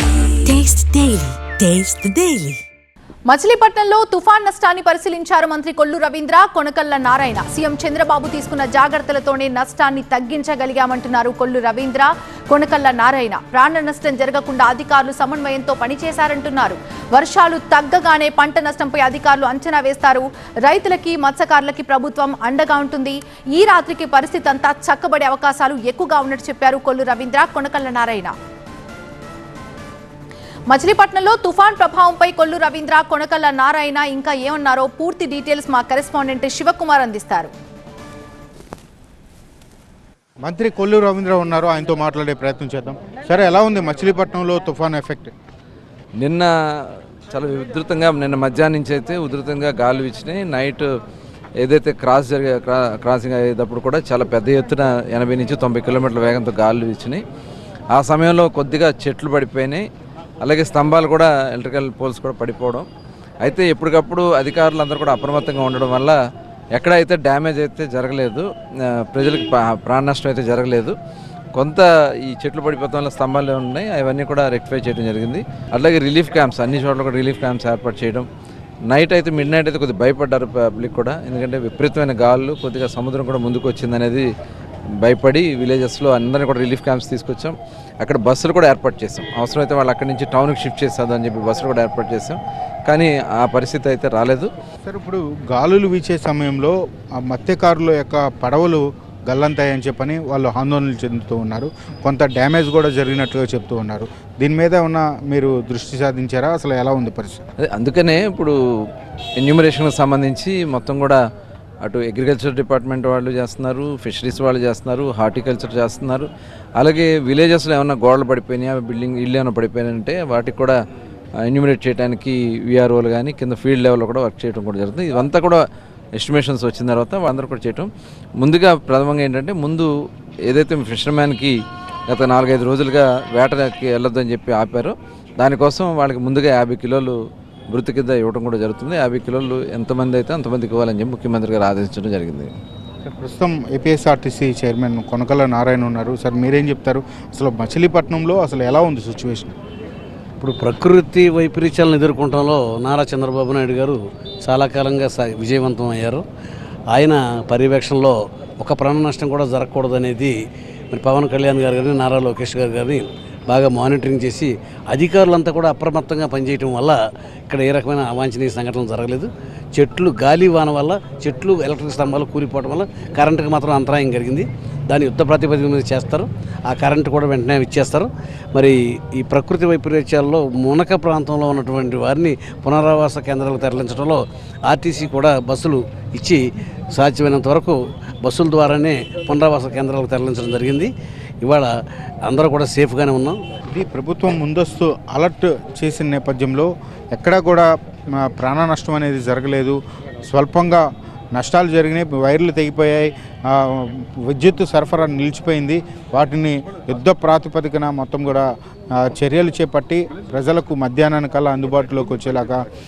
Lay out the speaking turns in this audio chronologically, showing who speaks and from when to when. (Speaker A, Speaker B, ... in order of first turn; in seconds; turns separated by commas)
Speaker A: 0.5-2.6, Speaker B: 3.3-28.3, Speaker B: 30.7-37.5, Speaker C: 40.4-45.3, Speaker D: 46.2-50.9, Speaker D: 51.6-57.2, Speaker D: 57.9-59.9, Speaker D: 60.4-62.9, Speaker D: 63.4-66.2, Speaker D: 66.8-68.4, Speaker D: 69.1-70.9, Speaker D: 71.5-78.3, Speaker D: 78.9-84.2, Speaker D: 85.0-94.5, Speaker C: 94.8-107.4, Speaker D: 107.6-108.5, Speaker D: 109.4-111.2, Speaker D: 111.8-120.8, Speaker D: 121.5-125.6, Speaker D: 126.2-129.9, Speaker D: 130.5-131.6, Speaker D: 132.1-137.1, Speaker D: 137.7-142.5, Speaker C: 143.1-149.5, Speaker E: 150.4-156.2, Speaker E: 156.9-160.4, Speaker E: 160.9-186.4, Speaker E: 186.9-190.9, Speaker E: 191.4-191.7, Speaker E: 192.2-193.4, Speaker C: 193.7-197.7, Speaker C: 198.2-200.8, Speaker C: 201.3-208.5, Speaker C: 209.0-212.6